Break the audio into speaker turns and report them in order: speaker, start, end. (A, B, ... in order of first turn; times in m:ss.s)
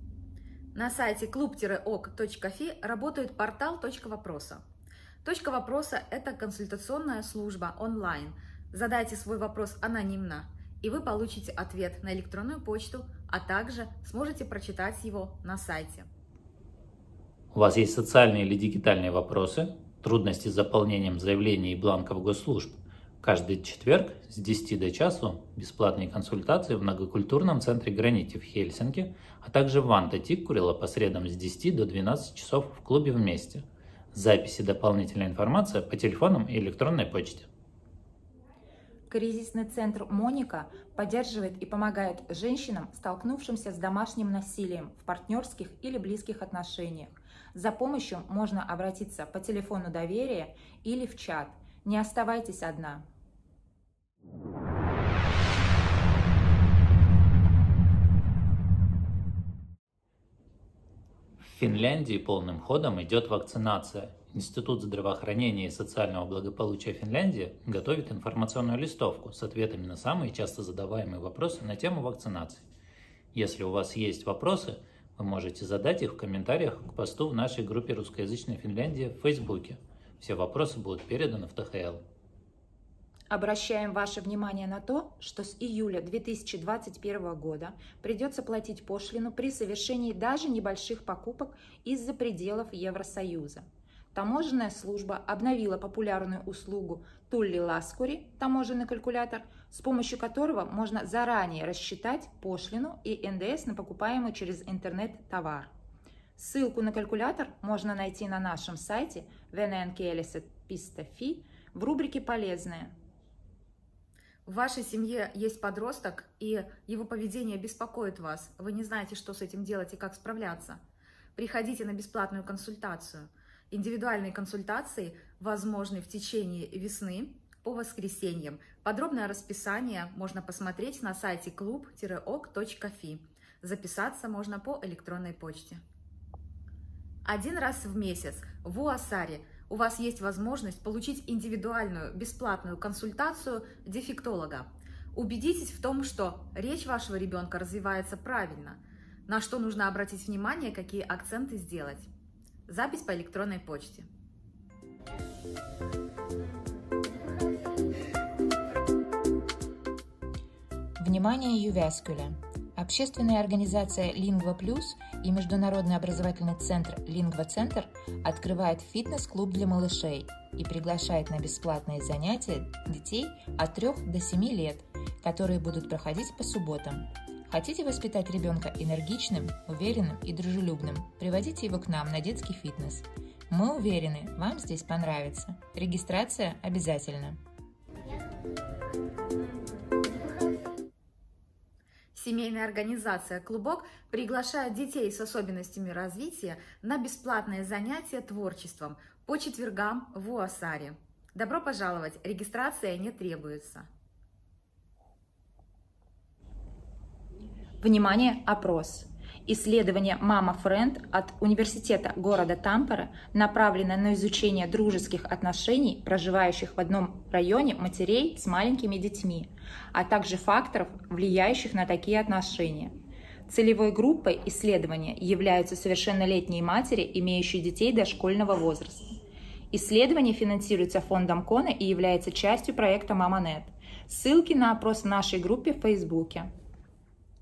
0:00.7-0:04.6 A
0:05.2-0:16.1 A
0:17.5-0:37.5 B
0:39.1-0:53.0 C
1:01.4-1:12.7 B
1:13.3-1:22.0 B
1:23.3-1:45.7 C
1:46.4-1:52.9 C
1:54.4-2:00.8 A
2:01.4-2:15.8 A
2:17.2-2:32.1 A
2:32.7-2:34.1 A
2:41.0-3:07.4 C
3:12.1-3:23.9 A
3:27.8-3:42.9 C
3:43.5-3:49.1 C
3:49.7-3:56.5 C